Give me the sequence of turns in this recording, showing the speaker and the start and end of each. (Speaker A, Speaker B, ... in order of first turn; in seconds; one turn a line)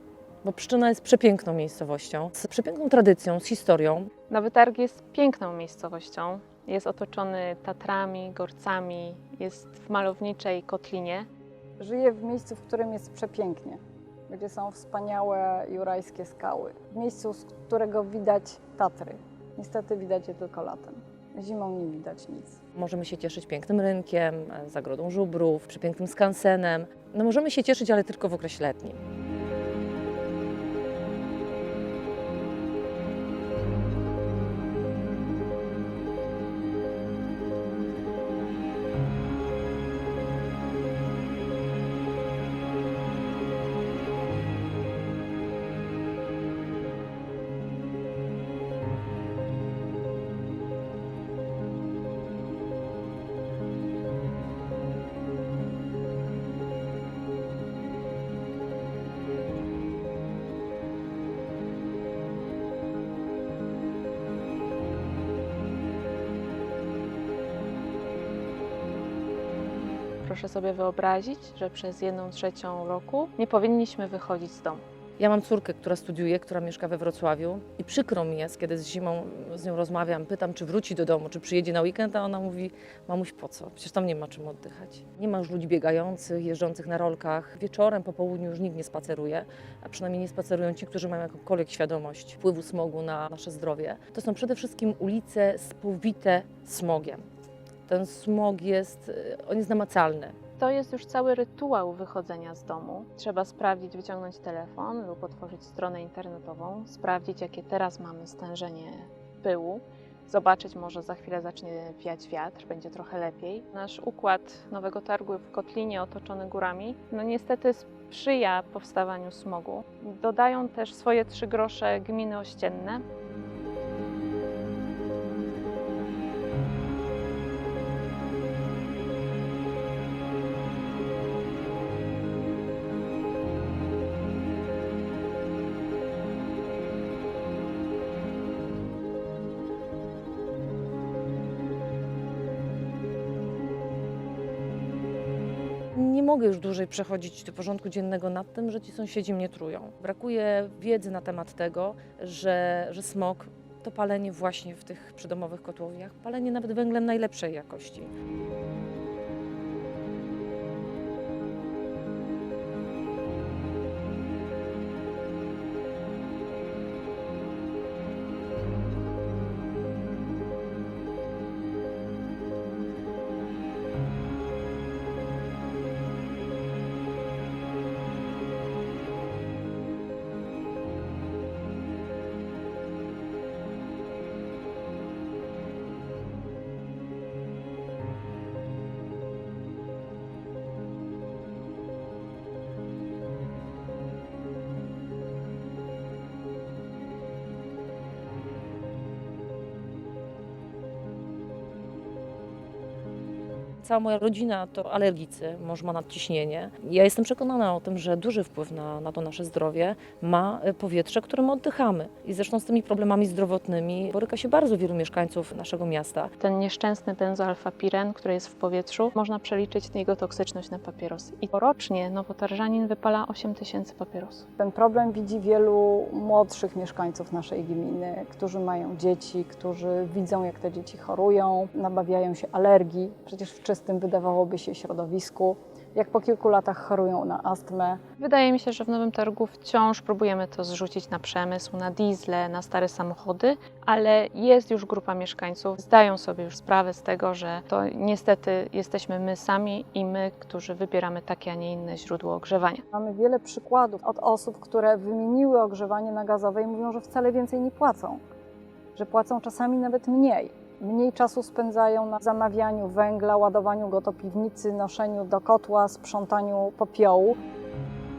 Speaker A: 0.4-4.1
Speaker B: 4.3-11.3
Speaker C: 11.8-22.6
Speaker A: 22.8-29.0
Speaker B: 70.2-74.8
Speaker A: 75.2-97.2
Speaker A: 97.9-100.4
Speaker B: 100.6-123.0
Speaker A: 145.9-158.1
Speaker A: 203.8-216.3
Speaker B: 216.4-224.4
Speaker C: 224.6-238.0
Speaker B: 238.2-252.8
Speaker C: 252.9-258.2
Speaker C: 258.9-267.4